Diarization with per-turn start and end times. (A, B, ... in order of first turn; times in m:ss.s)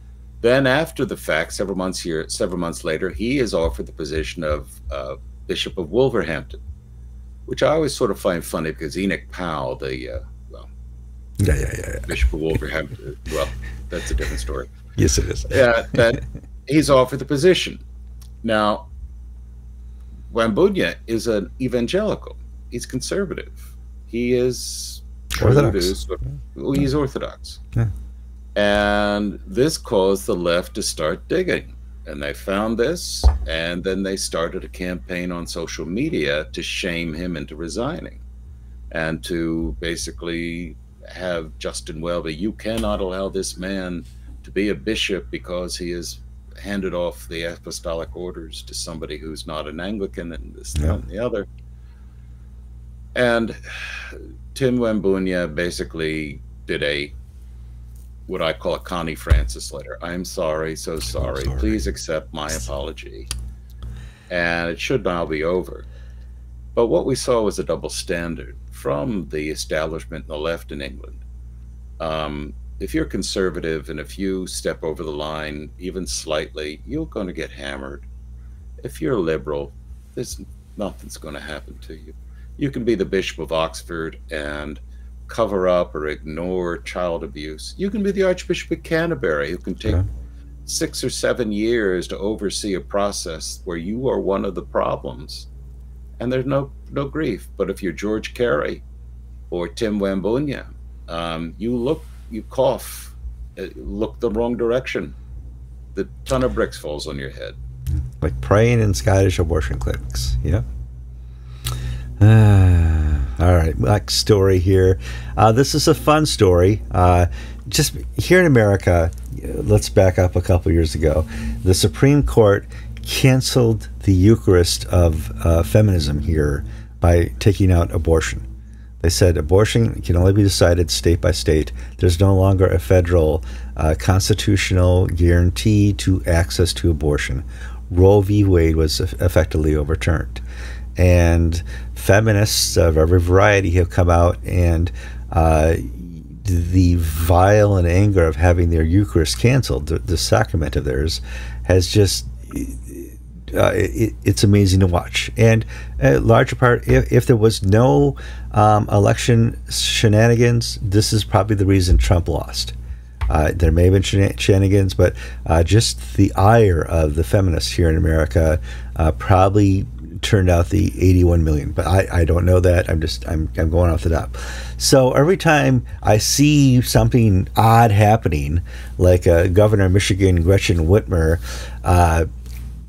0:00.4-0:06.6 A
0:07.5-0:10.7 A
0:11.4-0:12.1 B
0:12.1-0:14.7 A
0:15.0-0:15.6 B
0:15.5-0:17.8 A
0:18.4-0:18.9 A
0:20.3-0:27.6 A
0:25.4-0:26.0 B
0:28.6-0:38.2 A
0:38.9-0:51.5 A
0:53.2-0:57.2 A
0:58.3-1:03.3 A
1:01.3-1:01.8 B
1:04.3-1:05.9 A
1:06.8-1:11.2 A
1:12.0-1:18.1 A
1:18.8-1:30.0 A
1:30.6-1:35.5 A
1:36.2-1:38.8 A
1:39.5-1:45.2 A
1:46.0-1:47.6 A
1:48.2-1:50.6 B
1:52.2-2:08.5 B
2:09.0-2:20.4 B
2:21.0-2:42.7 B
2:43.3-3:02.3 B